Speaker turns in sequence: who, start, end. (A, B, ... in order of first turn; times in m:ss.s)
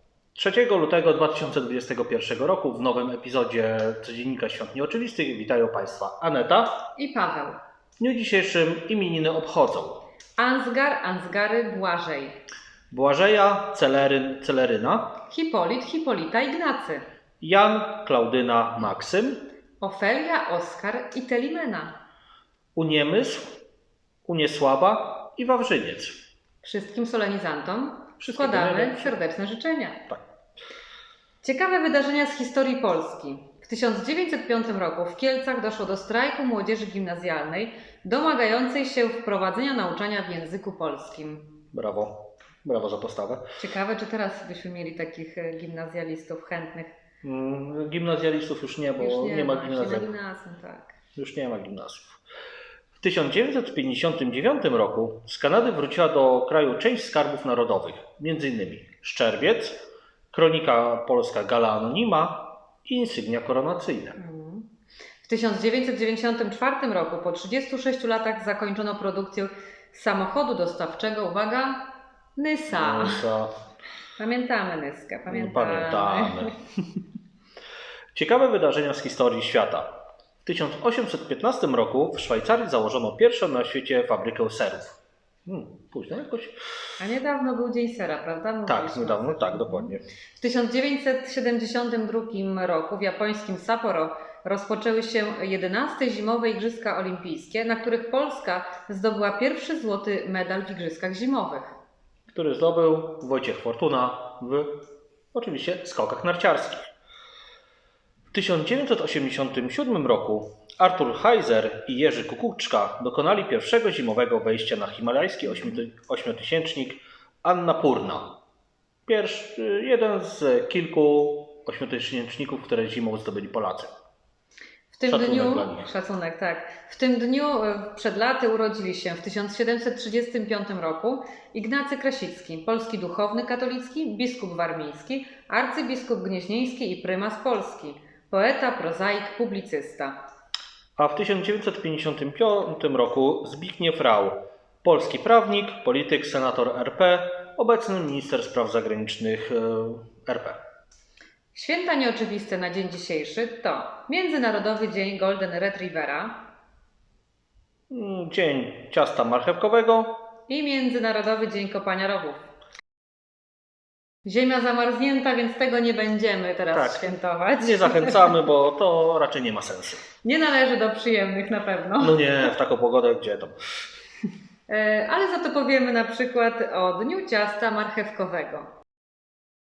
0:00.4-0:06.8 A
0:07.0-0:07.6 B
0:08.0-0:10.0 A
0:10.4-0:12.4 B
0:12.9-0:15.1 A
0:15.3-0:17.0 B
0:17.4-0:19.4 A
0:19.8-0:22.0 B
0:22.8-0:23.6 A
0:24.3-0:26.2 A
0:26.6-0:30.1 B
0:28.2-0:29.2 A
0:31.4-0:41.6 B
0:41.7-0:43.5 A
0:43.6-0:46.9 B
0:47.2-0:50.1 A
0:49.0-0:51.0 B
0:51.2-0:52.2 A
0:53.0-1:04.2 A
1:04.2-1:04.7 B
1:05.2-1:13.3 B
1:12.7-1:13.5 A
1:14.2-1:16.5 B
1:15.3-1:16.6 A
1:18.1-1:26.6 A
1:27.0-1:41.8 B
1:28.7-1:30.0 A
1:42.3-1:44.8 A
1:45.3-1:46.9 A
1:48.3-1:58.4 A
1:59.1-2:03.9 A
2:04.9-2:20.2 B
2:05.1-2:05.9 A
2:21.0-2:30.6 A
2:31.5-2:36.5 B
2:37.9-2:40.2 A
2:40.5-2:42.5 B
2:44.2-2:48.4 B
2:46.7-2:50.0 A
2:50.2-2:52.4 B
2:52.0-2:53.6 A
2:54.7-2:58.7 B